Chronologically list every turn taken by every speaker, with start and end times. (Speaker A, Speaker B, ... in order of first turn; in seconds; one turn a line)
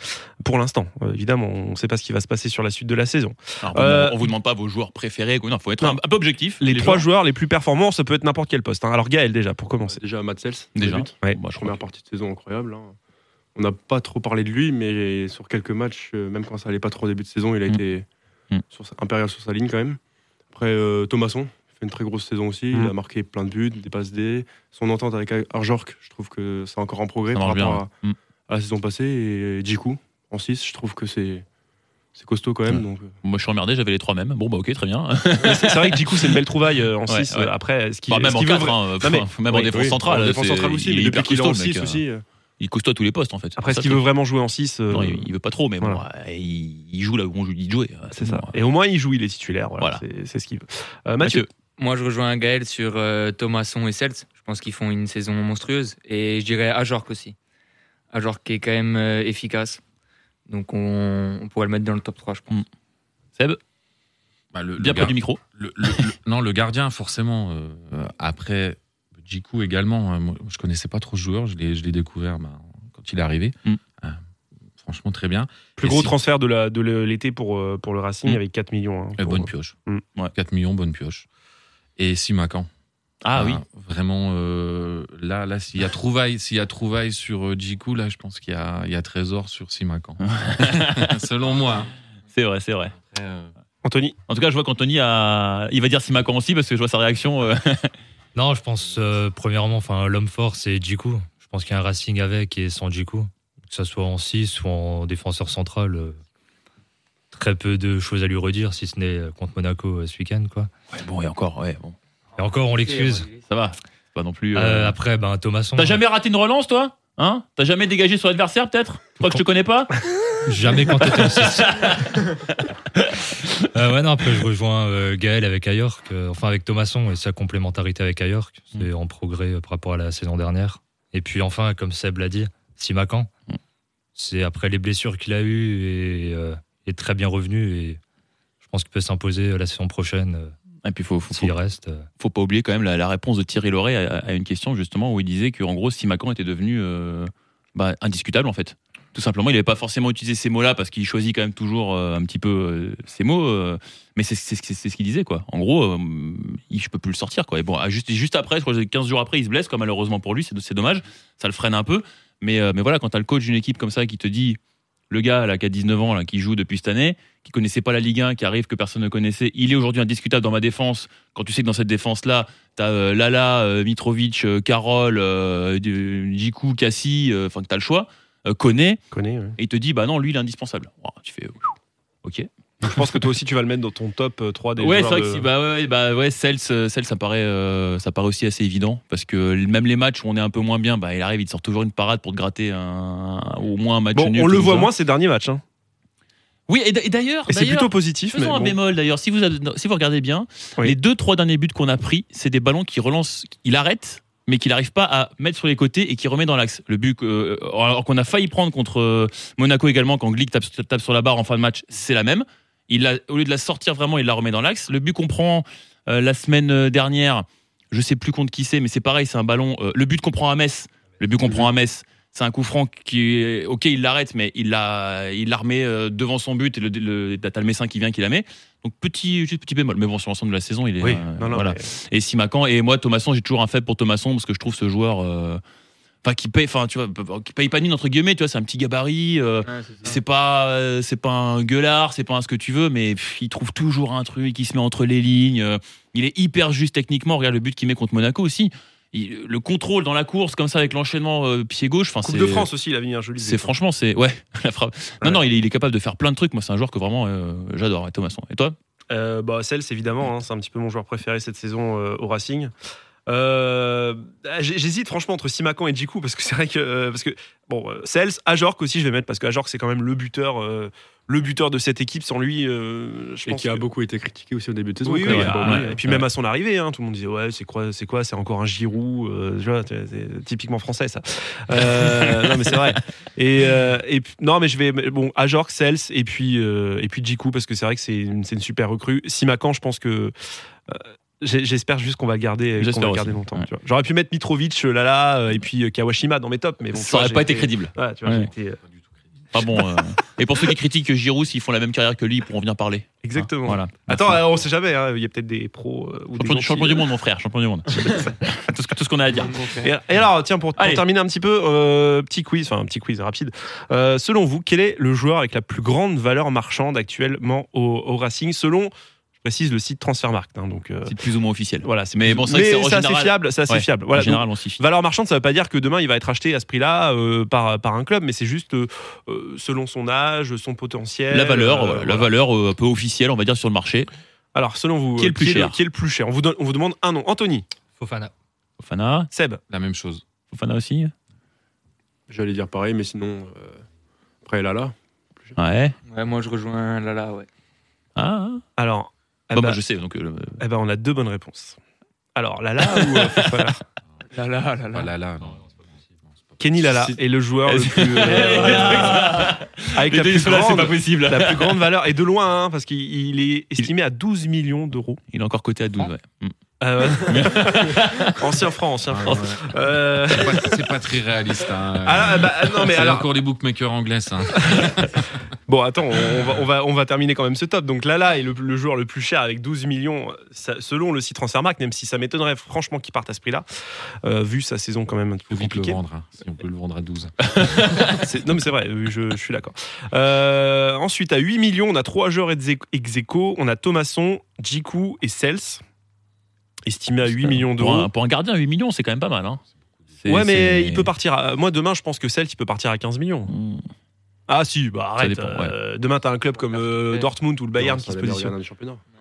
Speaker A: 0.4-4.3
Speaker B: 3.6-7.0
Speaker A: 6.6-10.0
Speaker C: 9.9-12.9
Speaker B: 10.8-11.8
Speaker C: 13.5-18.1
Speaker C: 18.7-20.0
Speaker C: 20.5-27.9
Speaker B: 27.3-28.1
Speaker C: 28.5-31.4
Speaker C: 32.1-33.1
Speaker B: 32.7-36.4
Speaker A: 35.4-39.9
Speaker B: 37.1-37.5
Speaker B: 38.1-42.0
Speaker C: 39.6-42.2
Speaker B: 42.6-44.1
Speaker A: 43.6-45.3
Speaker B: 44.9-48.5
Speaker A: 48.1-51.5
Speaker B: 51.2-51.5
Speaker D: 51.8-57.4
Speaker D: 58.1-59.8
Speaker D: 60.5-62.6
Speaker E: 64.5-74.2
Speaker B: 64.8-66.1
Speaker E: 74.8-76.1
Speaker A: 75.8-80.0
Speaker E: 79.2-79.8
Speaker E: 80.3-81.2
Speaker E: 82.0-82.7
Speaker B: 83.2-83.6
Speaker E: 83.3-91.9
Speaker B: 90.2-91.2
Speaker B: 92.3-92.9
Speaker E: 92.9-93.5
Speaker A: 93.8-94.2
Speaker B: 94.3-97.9
Speaker F: 98.3-106.2
Speaker F: 107.3-110.7
Speaker B: 110.9-112.0
Speaker F: 112.4-113.3
Speaker D: 112.8-113.4
Speaker B: 113.5-115.0
Speaker F: 114.5-116.0
Speaker B: 115.8-119.9
Speaker F: 120.4-122.0
Speaker B: 121.0-123.5
Speaker F: 123.7-133.3
Speaker F: 134.2-138.0
Speaker F: 138.6-140.5
Speaker B: 140.8-141.5
Speaker F: 141.3-142.1
Speaker B: 142.2-164.6
Speaker B: 165.1-179.0
Speaker A: 179.1-179.6
Speaker B: 179.6-181.7
Speaker B: 182.2-183.2
Speaker A: 182.8-185.4
Speaker B: 184.8-194.9
Speaker A: 194.1-195.6
Speaker B: 196.7-235.6
Speaker A: 197.5-198.8
Speaker A: 231.0-231.8
Speaker B: 236.2-252.7
Speaker D: 239.6-240.2
Speaker A: 252.2-253.7
Speaker B: 253.4-258.8
Speaker A: 259.1-262.7
Speaker A: 263.3-273.8
Speaker C: 273.4-276.0
Speaker A: 275.0-290.3
Speaker B: 275.2-276.2
Speaker B: 281.8-282.8
Speaker A: 290.9-298.8
Speaker B: 292.8-293.7
Speaker B: 296.9-298.5
Speaker B: 299.5-304.4
Speaker A: 303.2-307.1
Speaker B: 306.4-309.6
Speaker A: 308.0-308.3
Speaker D: 309.4-309.9
Speaker A: 309.7-321.1
Speaker B: 310.8-311.0
Speaker B: 321.1-324.8
Speaker A: 321.8-332.3
Speaker B: 331.3-334.1
Speaker A: 334.5-337.6
Speaker B: 335.2-335.8
Speaker F: 338.0-338.3
Speaker B: 338.8-339.3
Speaker A: 339.3-339.6
Speaker E: 339.7-340.2
Speaker B: 340.5-341.1
Speaker C: 342.3-343.8
Speaker C: 344.4-345.6
Speaker B: 345.6-345.9
Speaker D: 346.1-347.5
Speaker B: 348.1-348.6
Speaker A: 348.8-349.8
Speaker B: 349.5-350.6
Speaker A: 350.6-351.8
Speaker A: 352.4-353.8
Speaker B: 352.9-353.7
Speaker D: 354.3-355.1
Speaker E: 354.9-356.6
Speaker A: 356.6-365.2
Speaker B: 357.6-361.8
Speaker D: 358.4-358.9
Speaker B: 365.3-368.6
Speaker A: 366.8-370.8
Speaker E: 369.1-369.7
Speaker E: 370.2-375.2
Speaker A: 372.0-373.3
Speaker A: 374.6-374.9
Speaker A: 375.7-383.6
Speaker A: 384.2-386.0
Speaker E: 385.5-387.9
Speaker B: 387.5-388.2
Speaker A: 388.1-395.8
Speaker A: 396.9-398.1
Speaker B: 397.2-399.6
Speaker B: 400.2-401.1
Speaker A: 400.3-403.5
Speaker B: 403.5-403.8
Speaker A: 404.5-408.5
Speaker B: 405.2-405.7
Speaker D: 406.7-407.3
Speaker C: 407.7-409.0